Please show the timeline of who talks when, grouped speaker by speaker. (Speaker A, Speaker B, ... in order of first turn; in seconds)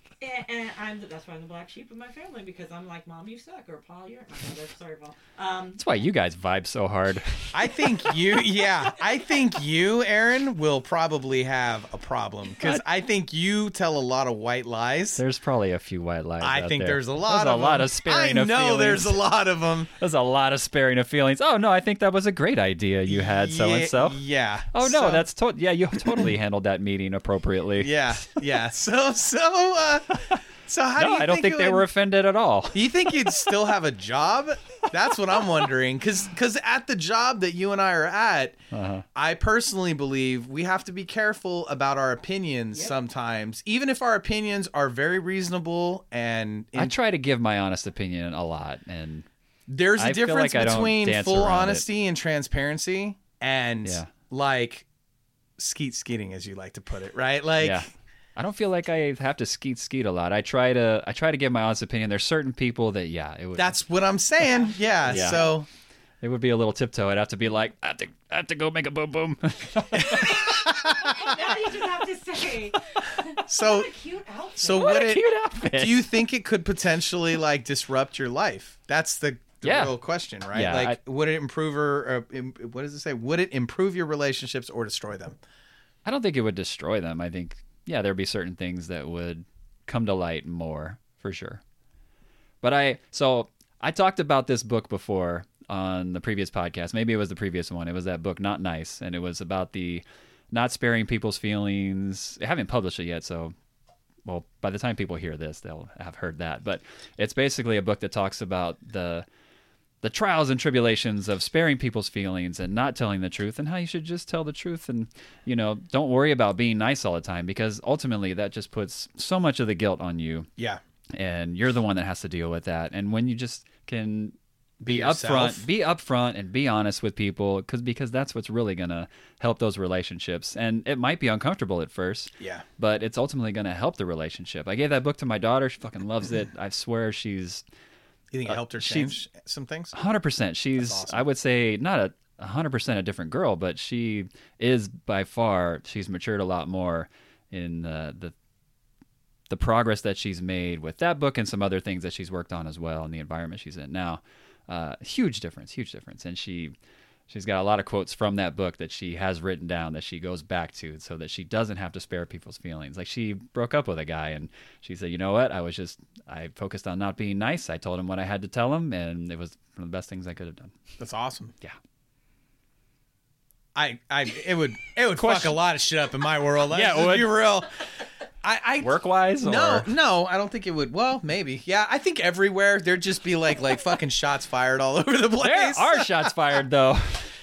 Speaker A: 0.2-6.0, 8.1-9.4, 64.4-65.6, 70.0-75.2
Speaker B: 5.8-7.5, 15.2-19.2, 20.0-24.2, 24.7-28.3, 31.0-32.9, 38.7-39.0, 46.8-49.3, 50.0-51.8, 53.8-54.1, 57.6-57.9, 58.4-63.8, 65.1-65.5, 66.2-71.2, 74.7-76.1, 79.6-79.9, 80.5-81.0, 86.0-91.6, 92.6-103.5, 104.2-109.3, 110.0-120.5, 121.2-137.6, 138.5-139.2, 139.9-148.3, 149.5-156.7, 157.3-170.8, 175.1-175.6, 176.7-177.4, 178.8-179.9, 185.4-187.3
Speaker C: 7.5-15.2, 16.4-19.9, 23.1-25.3, 26.0-26.3, 27.8-31.9, 32.7-38.6, 39.1-47.0, 49.7-54.9, 55.6-57.9, 63.6-65.7, 70.0-71.1, 73.5-73.9, 74.6-85.4, 124.8-125.7, 132.4-132.7, 138.3-139.9, 140.8-141.2, 171.0-171.5, 173.8-177.7, 178.4-186.3